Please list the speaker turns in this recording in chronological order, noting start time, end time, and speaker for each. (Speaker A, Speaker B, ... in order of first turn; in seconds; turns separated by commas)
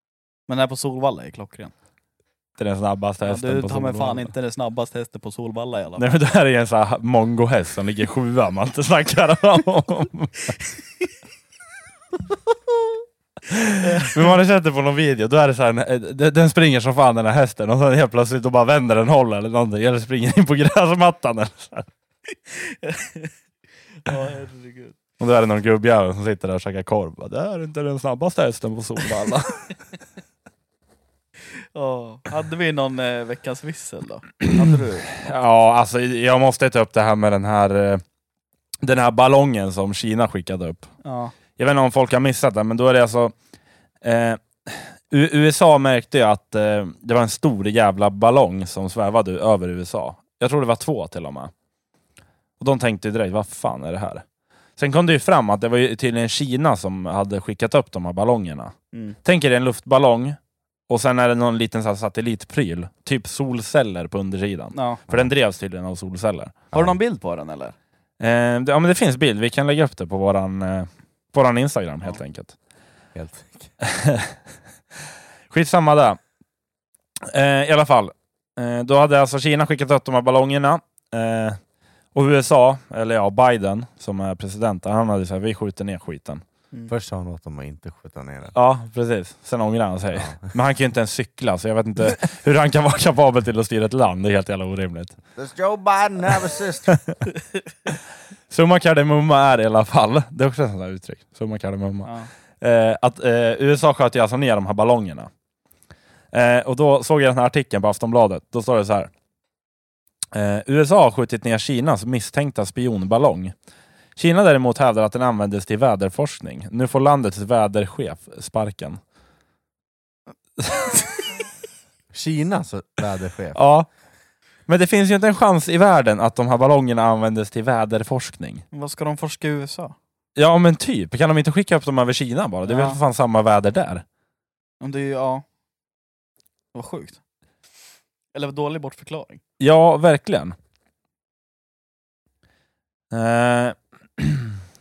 Speaker A: 0.5-1.7, Speaker B: 2.6-4.3, Speaker A: 3.2-6.1, Speaker B: 6.0-10.6, Speaker B: 13.5-21.9, Speaker A: 13.8-14.3, Speaker A: 22.5-23.3, Speaker A: 24.1-25.0, Speaker B: 25.2-29.7, Speaker A: 31.7-35.1, Speaker B: 35.1-38.0, Speaker B: 38.8-40.9, Speaker A: 41.0-41.3, Speaker B: 41.6-43.3, Speaker B: 44.0-51.5, Speaker B: 52.6-54.2, Speaker B: 54.8-60.4, Speaker A: 58.9-59.2, Speaker B: 60.9-66.7, Speaker A: 64.7-65.0, Speaker A: 66.7-67.8, Speaker B: 68.2-72.5, Speaker C: 73.2-73.7, Speaker B: 73.8-74.4, Speaker B: 75.5-76.2, Speaker B: 77.3-81.6, Speaker B: 82.2-86.4, Speaker C: 86.9-88.5, Speaker B: 88.5-95.2, Speaker C: 90.1-90.5, Speaker C: 95.4-97.0, Speaker B: 96.9-97.2, Speaker B: 98.5-105.3, Speaker A: 102.0-102.3, Speaker B: 106.3-109.1, Speaker B: 110.3-113.5, Speaker B: 114.2-119.0, Speaker B: 120.7-121.0, Speaker C: 122.1-123.6, Speaker B: 123.5-123.9, Speaker B: 124.7-128.6, Speaker A: 128.7-130.0, Speaker B: 130.4-134.0, Speaker A: 132.7-133.0, Speaker A: 134.8-135.4, Speaker A: 136.7-137.2, Speaker A: 138.3-139.4, Speaker B: 139.6-140.6, Speaker B: 143.1-144.6